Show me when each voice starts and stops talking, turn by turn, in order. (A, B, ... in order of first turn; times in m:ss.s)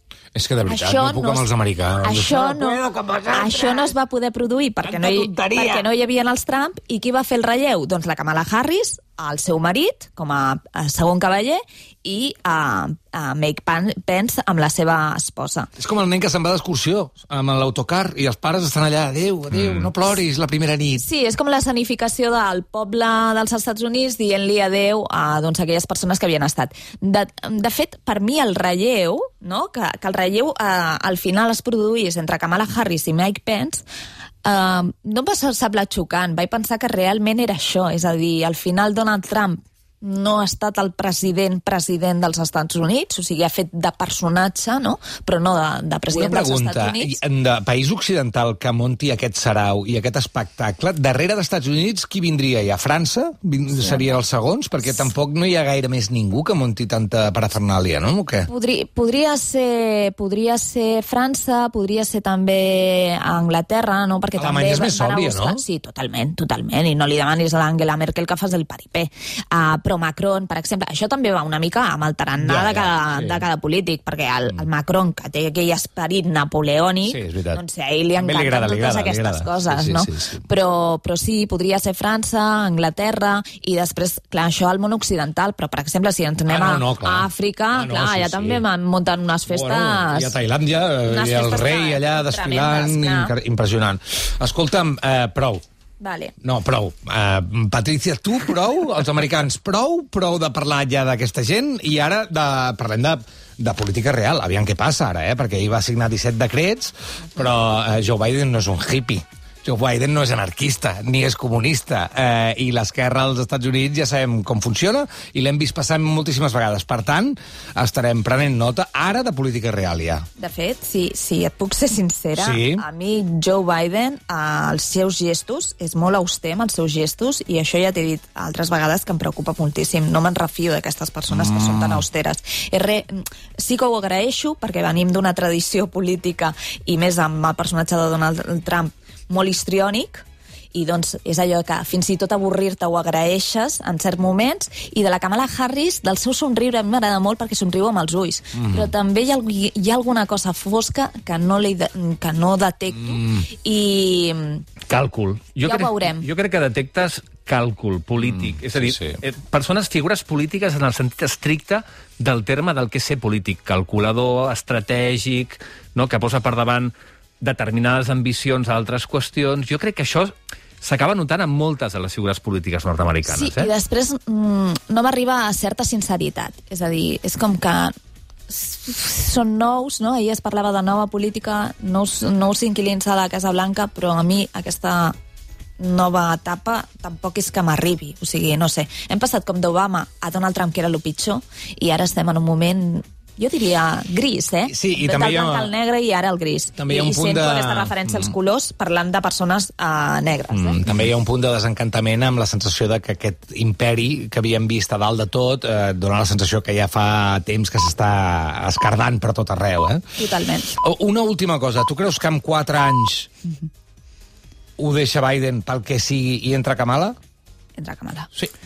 0:00.3-0:03.9 A
0:00.6-0:01.5 B
0:02.0-0:02.8 B
0:03.3-0:15.7 B
0:04.8-0:05.8 A
0:15.8-0:21.0 A
0:19.5-0:19.9 C
0:21.0-0:33.8 B
0:34.4-0:47.2 B
0:46.1-0:58.5 A
0:53.8-0:54.1 B
0:58.5-1:30.4 B
1:04.4-1:05.6 A
1:12.4-1:13.4 A
1:17.1-1:17.6 A
1:18.2-1:20.4 A
1:26.4-1:28.6 A
1:29.5-1:35.6 A
1:31.0-1:33.3 B
1:36.0-1:36.3 B
1:36.4-2:00.2 A
2:00.4-2:34.6 B
2:02.4-2:02.8 A
2:11.3-2:12.0 A
2:28.6-2:28.9 A
2:34.9-2:53.7 C
2:35.6-2:36.2 B
2:38.4-2:39.2 A
2:53.3-2:57.9 B
2:58.5-3:05.2 B
3:05.8-3:20.8 B
3:14.7-3:15.7 A
3:16.8-3:18.3 A
3:20.5-3:30.1 A
3:30.2-3:30.7 B
3:30.7-3:33.3 A
3:34.8-3:37.2 A
3:37.8-3:38.3 B